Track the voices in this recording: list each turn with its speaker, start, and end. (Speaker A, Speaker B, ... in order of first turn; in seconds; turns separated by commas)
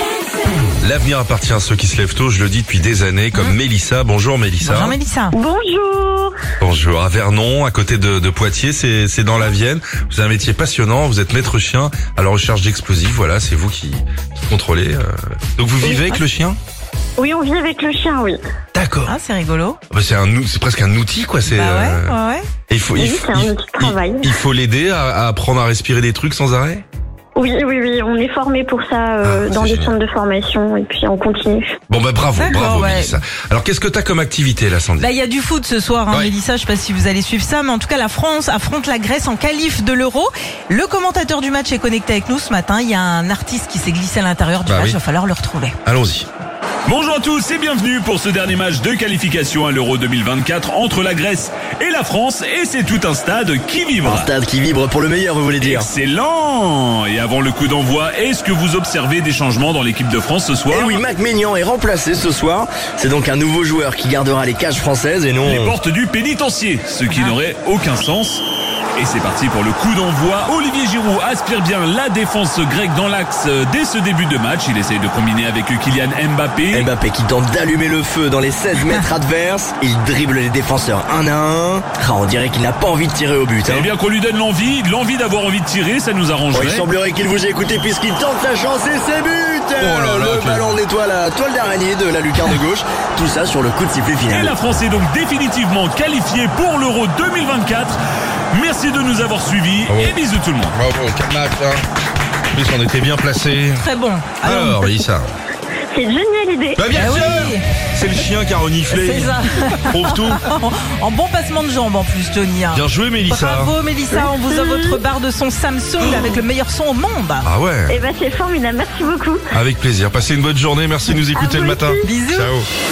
Speaker A: 0.8-5.0, Speaker B: 4.6-5.3, Speaker C: 5.3-6.3, Speaker A: 6.6-16.6, Speaker C: 15.8-16.2, Speaker C: 17.2-18.4, Speaker A: 18.7-19.1, Speaker B: 19.1-19.8, Speaker A: 19.9-22.1, Speaker B: 21.5-22.4, Speaker A: 22.7-26.8, Speaker C: 23.0-24.2, Speaker C: 27.4-31.7, Speaker A: 29.2-29.9, Speaker A: 31.9-35.1, Speaker B: 32.4-33.1, Speaker B: 35.0-45.8, Speaker A: 44.6-45.0, Speaker A: 45.8-46.3, Speaker D: 46.9-54.3, Speaker E: 54.0-55.8, Speaker D: 55.6-61.0, Speaker E: 60.7-65.7, Speaker D: 65.4-68.4, Speaker B: 67.1-67.4, Speaker D: 69.0-76.9, Speaker E: 76.7-83.9, Speaker D: 83.7-86.8, Speaker E: 86.5-94.6, Speaker A: 86.5-86.8, Speaker A: 89.8-90.7, Speaker D: 94.2-98.0, Speaker D: 98.5-100.7, Speaker A: 99.9-100.2, Speaker A: 100.7-101.8, Speaker A: 102.5-103.8, Speaker B: 103.7-105.0, Speaker A: 104.4-105.3, Speaker C: 105.9-107.2, Speaker A: 106.8-109.4, Speaker B: 106.9-107.6, Speaker B: 108.9-117.5, Speaker A: 109.9-110.4, Speaker A: 112.7-113.7, Speaker C: 114.1-115.0, Speaker A: 117.4-118.0, Speaker C: 117.9-119.4, Speaker A: 119.5-122.7, Speaker C: 121.3-122.1, Speaker B: 122.0-122.5